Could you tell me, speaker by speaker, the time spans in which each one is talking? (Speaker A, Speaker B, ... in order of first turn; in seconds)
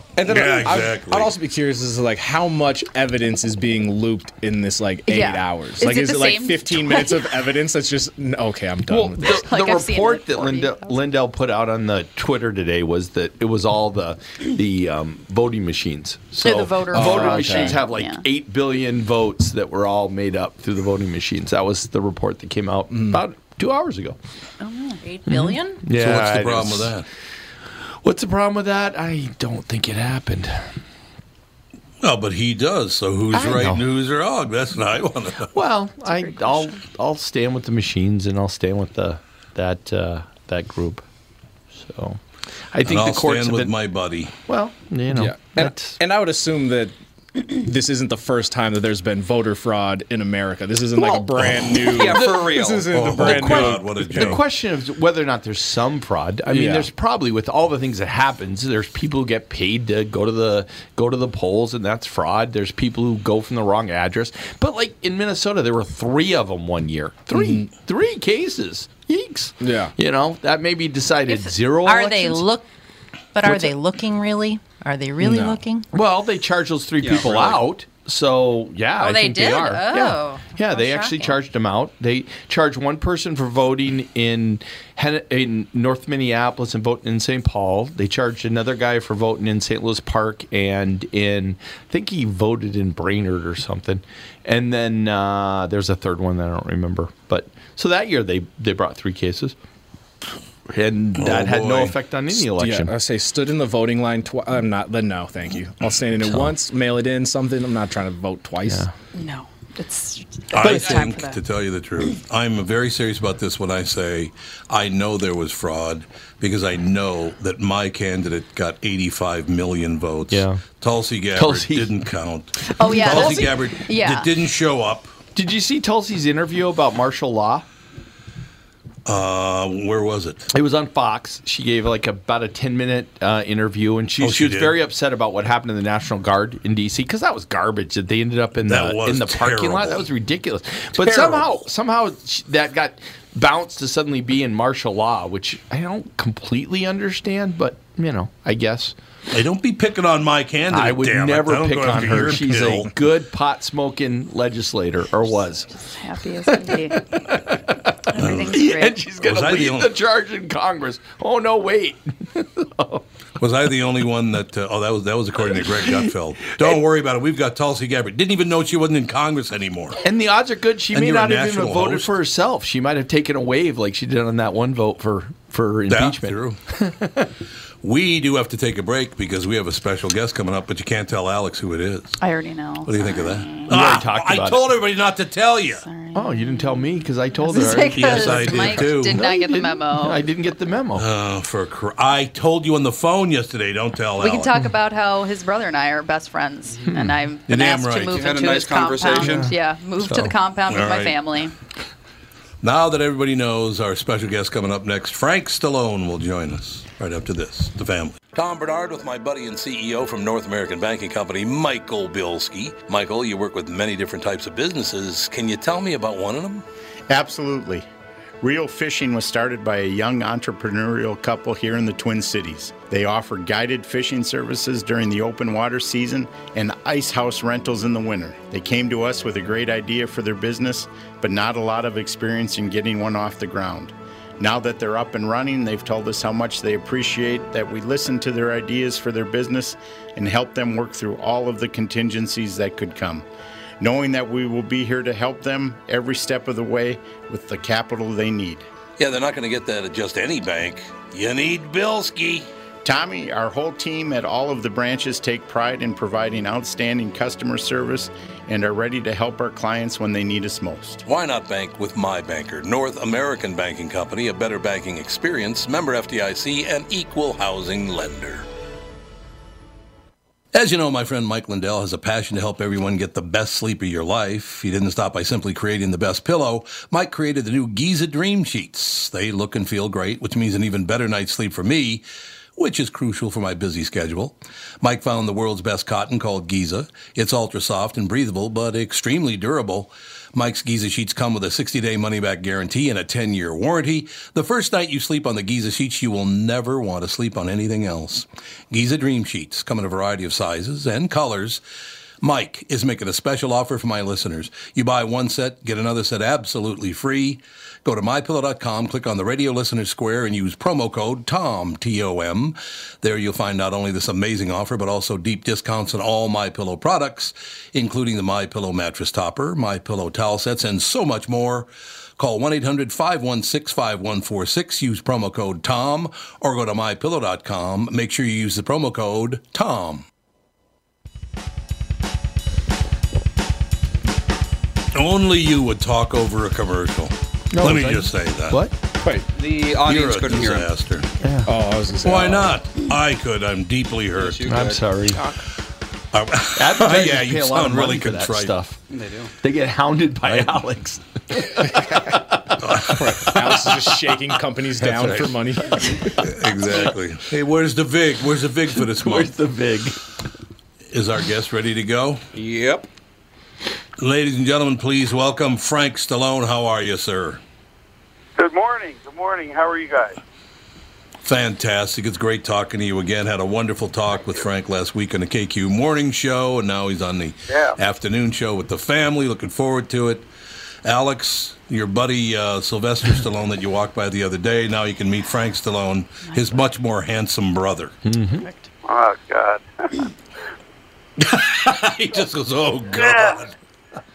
Speaker A: 0.1-9.5, 16.9-17.8, 22.9-23.2, 45.1-54.4, 56.5-56.9, 67.3-67.7, 69.6-69.9, 75.2-75.6, 102.4-108.8, 141.1-141.4, 339.0-339.3, 341.5-342.6, 351.6-352.1, 352.9-356.3
Speaker B: 0.3-1.3, 25.9-27.1, 32.0-35.5, 42.8-44.3, 51.4-51.8, 52.9-54.4, 101.2-101.9, 110.5-125.1, 129.0-130.5, 134.2-134.7, 138.7-140.1, 149.3-152.9, 158.2-158.7, 159.2-159.9, 163.4-170.0, 170.9-172.1, 175.9-176.6, 177.8-182.2, 182.8-185.8, 187.9-189.2, 190.9-194.5, 197.5-198.3, 200.7-201.2, 202.6-216.6, 249.0-252.5, 261.0-268.4, 270.5-282.0, 282.6-301.6, 302.2-330.0, 334.9-338.6, 339.8-341.1, 342.0-344.4, 346.1-348.5, 350.2-350.6, 352.6-353.7, 355.0-355.2, 356.2-359.3, 360.9-362.2, 364.0-367.4, 371.2-380.2, 380.8-387.9, 391.2-393.5
Speaker C: 5.0-7.4, 9.2-11.0, 16.4-18.2, 24.6-25.0, 36.0-36.7, 109.1-111.4, 122.8-124.3, 155.7-157.0, 158.1-159.0, 182.2-183.7, 185.8-186.9, 187.4-190.2, 194.2-201.5, 388.4-388.7
Speaker D: 8.9-24.2, 25.2-27.0, 28.0-30.8, 33.3-33.8, 35.5-41.0, 41.7-43.7, 44.5-46.0, 50.9-52.2, 53.1-72.4, 73.4-73.7, 75.9-99.5, 100.7-102.9, 108.6-108.9, 110.6-111.0, 120.3-120.6, 121.3-121.9, 122.9-123.5, 125.3-127.7, 130.5-148.9, 150.7-155.7, 156.5-163.0, 165.5-166.0, 166.5-166.8, 170.0-177.3, 183.7-184.6, 186.1-191.1, 196.8-197.2, 199.1-200.3, 337.5-338.8, 341.2-341.6, 344.5-345.2, 346.6-348.8, 349.4-352.5, 354.8-355.9, 356.6-356.9, 358.8-360.0, 388.0-388.4
Speaker E: 24.9-25.8, 71.2-72.7, 73.3-75.8, 79.0-81.4
Speaker F: 51.9-53.0, 77.0-77.6, 198.1-199.5, 339.3-340.7, 344.1-344.9, 348.9-349.3, 362.3-362.9
Speaker G: 217.1-217.8, 218.4-243.3, 243.8-248.6, 252.8-261.0
Speaker H: 368.4-370.2, 377.5-377.8, 388.8-390.1, 392.9-393.4